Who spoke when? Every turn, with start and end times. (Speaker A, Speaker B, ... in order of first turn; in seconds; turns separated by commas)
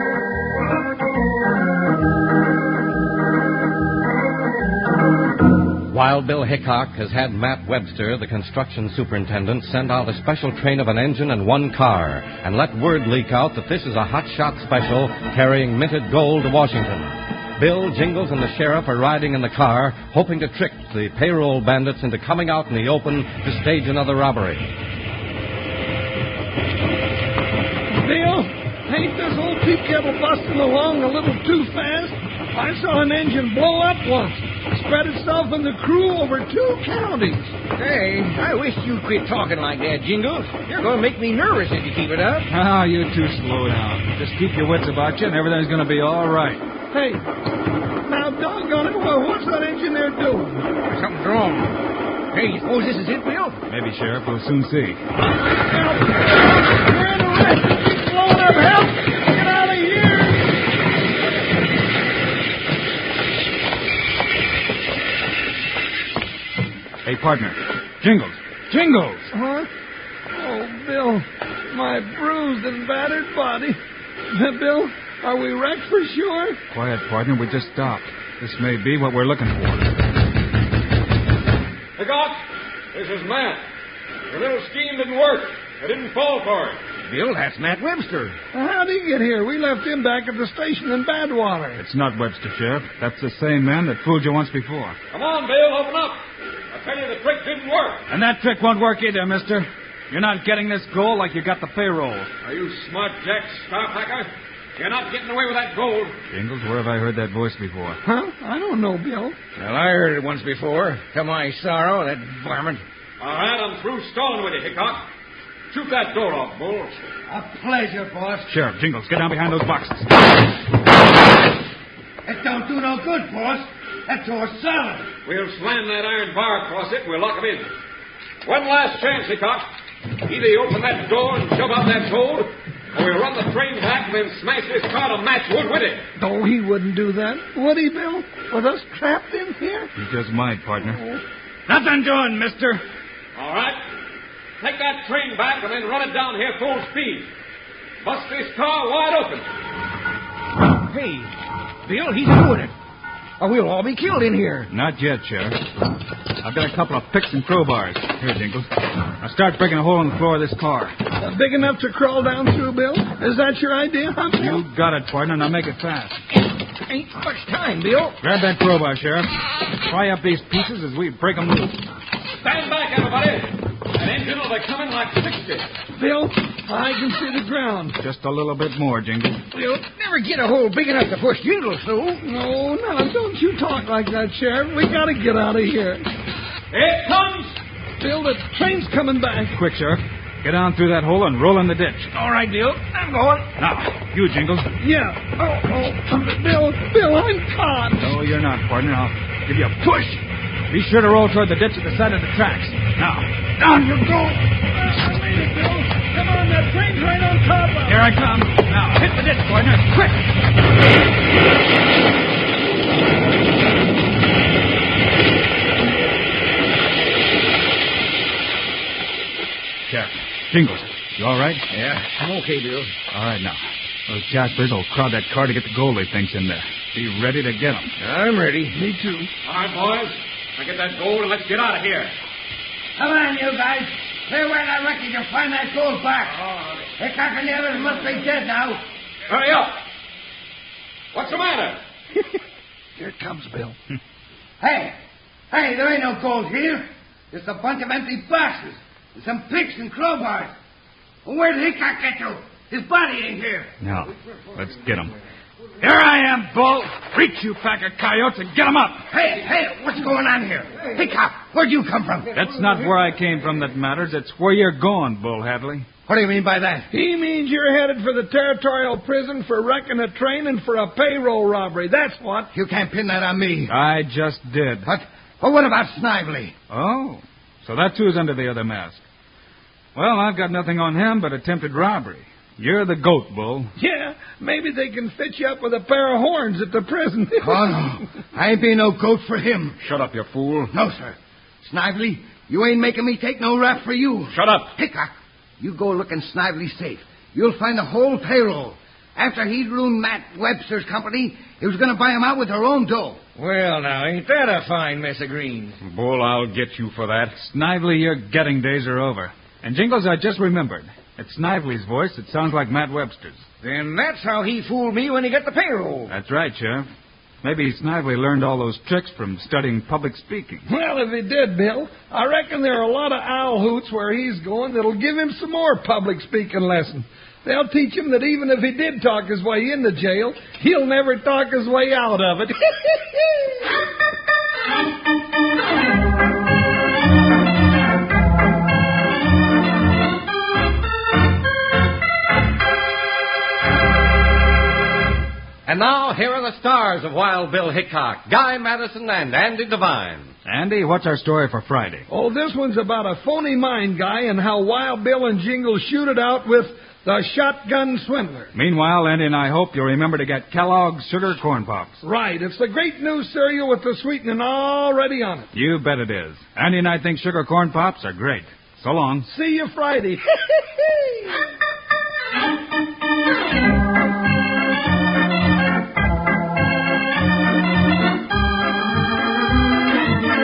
Speaker A: 5.9-24.7, Speaker B: 27.9-37.5, Speaker C: 37.8-42.5, Speaker D: 42.5-46.6, Speaker B: 46.9-47.2, Speaker B: 48.0-50.7, Speaker C: 50.8-51.8, Speaker C: 52.3-53.6, Speaker D: 53.7-55.0, Speaker B: 55.2-60.6, Speaker D: 67.0-69.3, Speaker B: 69.3-69.7, Speaker B: 70.3-73.8, Speaker B: 74.3-76.6, Speaker D: 76.7-79.9, Speaker E: 82.0-82.4, Speaker E: 82.9-83.6, Speaker E: 84.3-86.8, Speaker C: 87.1-88.4, Speaker B: 88.5-91.8, Speaker D: 91.8-95.0, Speaker E: 95.1-98.0, Speaker D: 98.1-102.3, Speaker E: 102.4-106.2, Speaker D: 106.3-108.0, Speaker B: 108.0-109.4, Speaker C: 109.6-112.8, Speaker E: 113.2-115.1, Speaker E: 115.7-117.0, Speaker F: 117.3-118.5, Speaker D: 118.5-120.4, Speaker F: 122.2-125.1, Speaker E: 125.2-127.7, Speaker E: 128.4-129.7, Speaker E: 130.2-136.0, Speaker B: 136.2-139.9, Speaker D: 140.0-141.0, Speaker D: 141.7-142.8, Speaker E: 143.4-143.8, Speaker E: 144.6-147.3, Speaker E: 148.0-149.5, Speaker C: 150.9-151.3, Speaker C: 151.8-152.7, Speaker C: 153.4-154.7, Speaker D: 154.7-155.6, Speaker D: 156.4-160.9, Speaker B: 161.2-164.6, Speaker D: 164.4-166.2, Speaker C: 166.8-168.2, Speaker D: 168.2-171.8, Speaker E: 172.4-175.7, Speaker B: 175.9-178.0, Speaker D: 178.0-179.4, Speaker C: 179.5-182.2, Speaker B: 182.2-186.1, Speaker E: 186.7-187.6, Speaker B: 188.0-189.5, Speaker D: 189.5-192.1, Speaker C: 192.1-193.5, Speaker D: 193.6-194.7, Speaker B: 194.8-198.1, Speaker D: 198.0-200.2, Speaker C: 199.8-200.1, Speaker D: 200.7-204.4, Speaker B: 204.6-208.1, Speaker D: 207.9-210.2, Speaker D: 219.9-221.6, Speaker C: 221.7-222.9, Speaker D: 223.1-227.9, Speaker C: 228.0-228.8, Speaker B: 228.7-229.3, Speaker E: 229.4-232.1, Speaker F: 233.0-236.4, Speaker F: 237.0-238.8, Speaker E: 239.3-239.8, Speaker E: 241.1-241.8, Speaker B: 243.0-243.8, Speaker F: 244.6-245.0, Speaker F: 245.5-250.5, Speaker F: 251.2-253.7, Speaker D: 253.8-255.2, Speaker D: 255.8-259.1, Speaker F: 259.1-262.3, Speaker D: 262.3-265.9, Speaker F: 266.1-266.9, Speaker B: 266.9-272.5, Speaker F: 272.5-273.7, Speaker D: 273.7-274.9, Speaker F: 274.9-276.5, Speaker D: 276.7-279.0, Speaker D: 279.9-283.7, Speaker B: 283.8-287.7, Speaker F: 287.4-289.8, Speaker E: 289.8-290.7, Speaker F: 290.7-303.2, Speaker E: 294.3-294.7, Speaker C: 303.4-305.8, Speaker E: 305.8-307.4, Speaker D: 307.4-313.4, Speaker C: 313.6-316.1, Speaker D: 316.1-316.9, Speaker D: 317.4-320.7, Speaker B: 320.7-333.0, Speaker A: 345.7-350.3, Speaker D: 350.4-352.1, Speaker B: 352.1-358.5, Speaker D: 358.5-362.0, Speaker B: 362.0-365.5, Speaker D: 365.5-369.3, Speaker B: 369.2-370.4